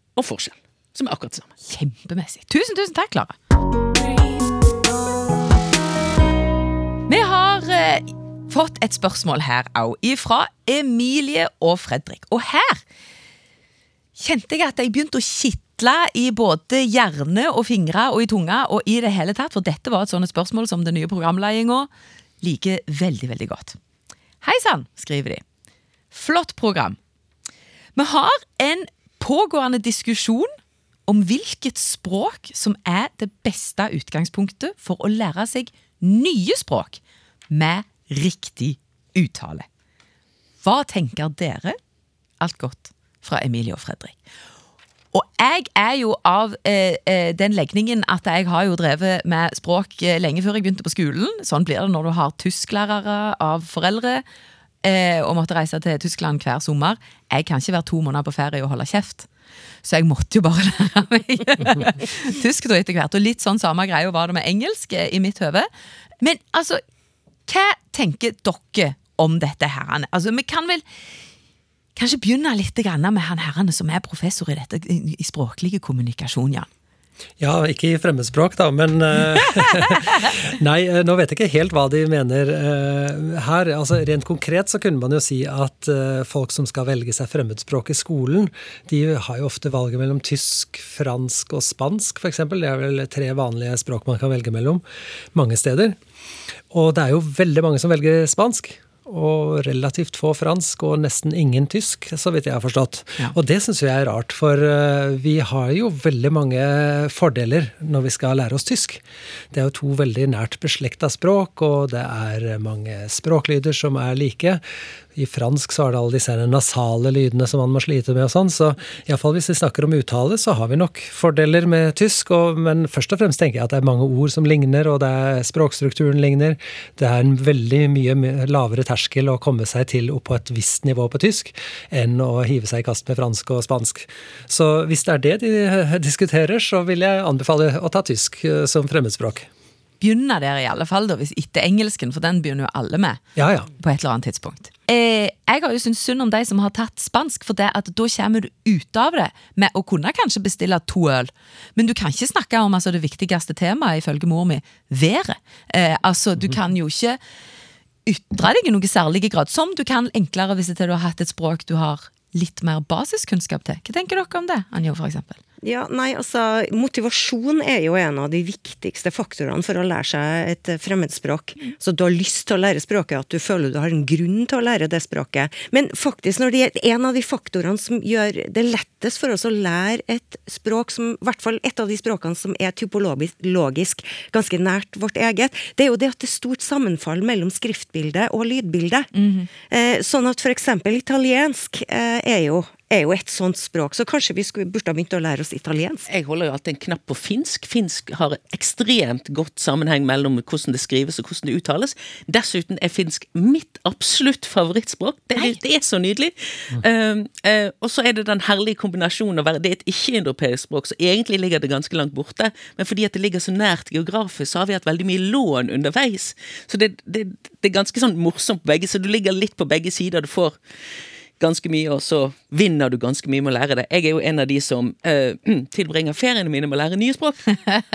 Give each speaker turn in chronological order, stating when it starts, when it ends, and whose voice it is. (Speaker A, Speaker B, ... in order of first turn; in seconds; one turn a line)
Speaker A: 0.2-1.5
Speaker B: 1.7-3.4
Speaker B: 7.1-12.8
Speaker B: 14.2-21.9
Speaker B: 22.4-23.8
Speaker B: 24.4-25.4
Speaker B: 26.1-27.0
Speaker B: 28.0-30.5
Speaker B: 31.1-37.0
Speaker B: 37.5-39.7
Speaker B: 40.6-41.8
Speaker B: 42.4-44.2
Speaker B: 45.1-54.2
Speaker B: 54.8-59.3
Speaker B: 59.8-65.7
Speaker B: 66.2-66.8
Speaker B: 67.5-70.8
Speaker B: 72.0-76.7
Speaker C: 77.4-94.8
Speaker C: 95.3-96.0
Speaker C: 96.7-114.6
Speaker C: 115.2-139.5
Speaker B: 140.0-143.2
Speaker C: 143.4-143.7
Speaker B: 143.8-157.2
Speaker B: 158.1-165.4
Speaker D: 165.6-189.1
Speaker B: 189.1-189.5
Speaker D: 189.7-196.1
Speaker A: 196.1-220.6
Speaker A: 221.4-227.7